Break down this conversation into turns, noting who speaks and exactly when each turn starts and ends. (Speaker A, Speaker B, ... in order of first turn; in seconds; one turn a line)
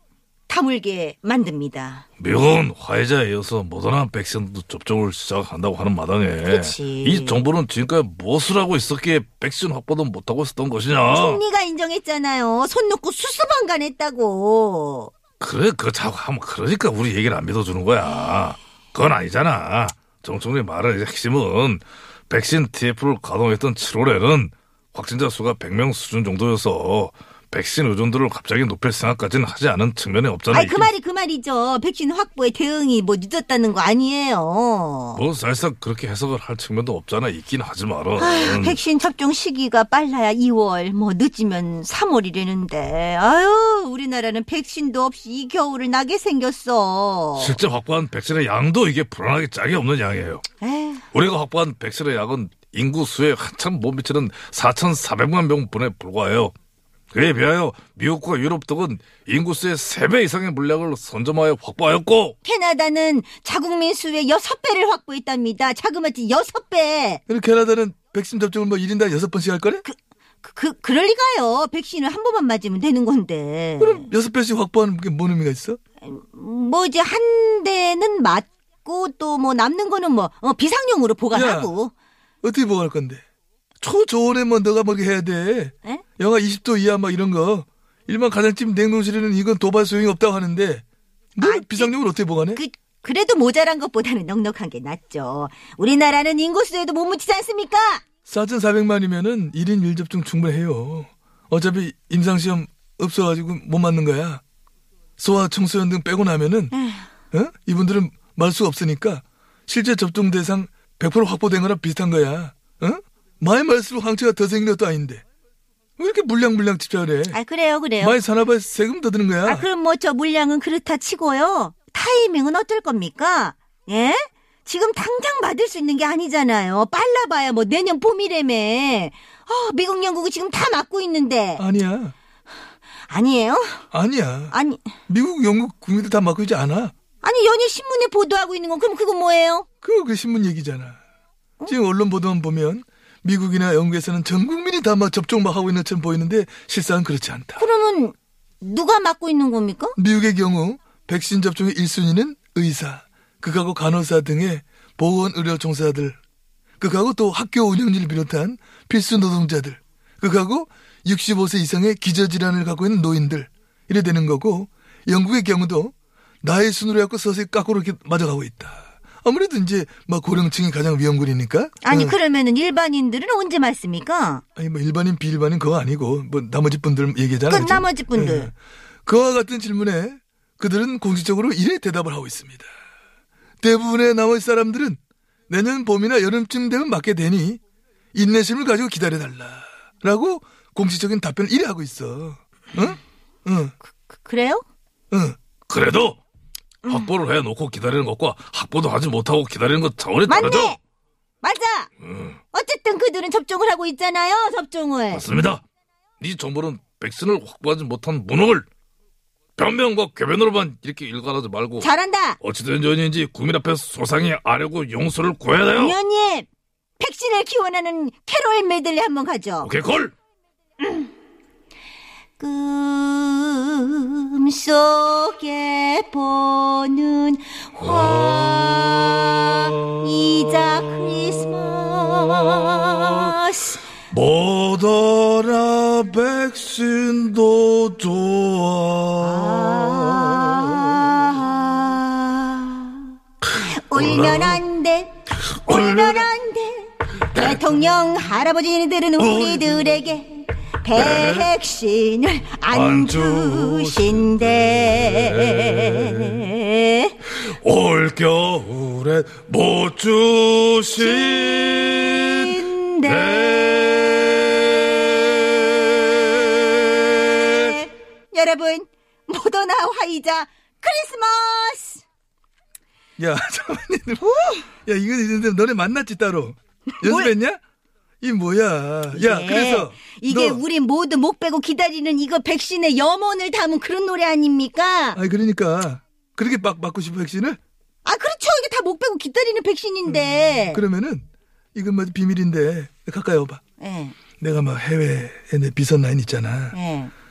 Speaker A: 0.5-2.0
Speaker B: 2.2-11.4
Speaker A: 6.4-7.4
Speaker A: 11.1-15.1
Speaker B: 15.4-30.9
Speaker A: 30.5-35.2
Speaker B: 35.1-38.8
Speaker A: 38.2-47.6
Speaker B: 47.4-50.5
Speaker A: 50.6-51.0
Speaker B: 51.1-56.5
Speaker B: 57.1-62.4
Speaker A: 62.4-67.2
Speaker C: 67.3-69.8
Speaker A: 69.8-74.1
Speaker C: 73.8-75.8
Speaker A: 76.0-81.9
Speaker C: 81.3-81.7
Speaker C: 82.4-83.2
Speaker C: 83.8-90.8
Speaker C: 91.4-92.6
Speaker A: 91.4-91.9
Speaker A: 92.5-98.0
Speaker C: 98.3-104.4
Speaker C: 105.2-106.7
Speaker A: 106.7-107.1
Speaker C: 107.3-115.2
Speaker C: 116.0-117.4
Speaker A: 117.3-118.2
Speaker C: 118.0-119.7
Speaker A: 119.5-131.7
Speaker C: 131.6-132.1
Speaker A: 133.1-133.9
Speaker C: 133.9-134.6
Speaker A: 134.5-134.8
Speaker C: 135.1-136.9
Speaker A: 137.2-139.7
Speaker C: 139.8-141.0
Speaker C: 141.7-147.7
Speaker A: 147.6-150.0
Speaker C: 150.0-156.2
Speaker C: 156.8-172.2
Speaker A: 171.8-174.4
Speaker C: 174.6-178.5
Speaker A: 177.5-178.5
Speaker C: 179.1-182.7
Speaker C: 183.6-187.6
Speaker C: 188.1-193.7
Speaker A: 193.8-194.6
Speaker C: 195.1-195.4
Speaker B: 195.7-196.2
Speaker B: 196.8-200.8
Speaker A: 200.3-200.8
Speaker A: 201.4-201.9
Speaker B: 202.0-202.4
Speaker A: 202.5-205.3
Speaker B: 205.1-205.6
Speaker B: 206.2-208.7
Speaker B: 209.6-211.9
Speaker A: 211.8-212.4
Speaker B: 212.4-216.0
Speaker A: 215.7-216.5
Speaker A: 217.0-219.7
Speaker B: 219.6-220.1
Speaker A: 220.8-221.1
Speaker A: 222.4-233.8
Speaker B: 227.8-230.5
Speaker B: 234.1-241.1
Speaker A: 239.2-257.2
Speaker B: 243.5-244.6
Speaker B: 245.4-246.3
Speaker B: 247.3-247.6
Speaker B: 249.2-250.0
Speaker B: 250.9-251.5
Speaker B: 252.7-256.4
Speaker B: 257.3-266.4
Speaker A: 261.0-263.5
Speaker A: 267.1-272.0
Speaker C: 273.2-274.2
Speaker A: 274.2-274.7
Speaker C: 274.8-277.6
Speaker A: 277.0-277.3
Speaker C: 278.2-280.6
Speaker A: 279.1-285.2
Speaker C: 285.1-287.6
Speaker A: 288.1-290.8
Speaker C: 290.1-293.6
Speaker A: 293.8-294.2
Speaker C: 294.4-296.8
Speaker A: 296.7-297.1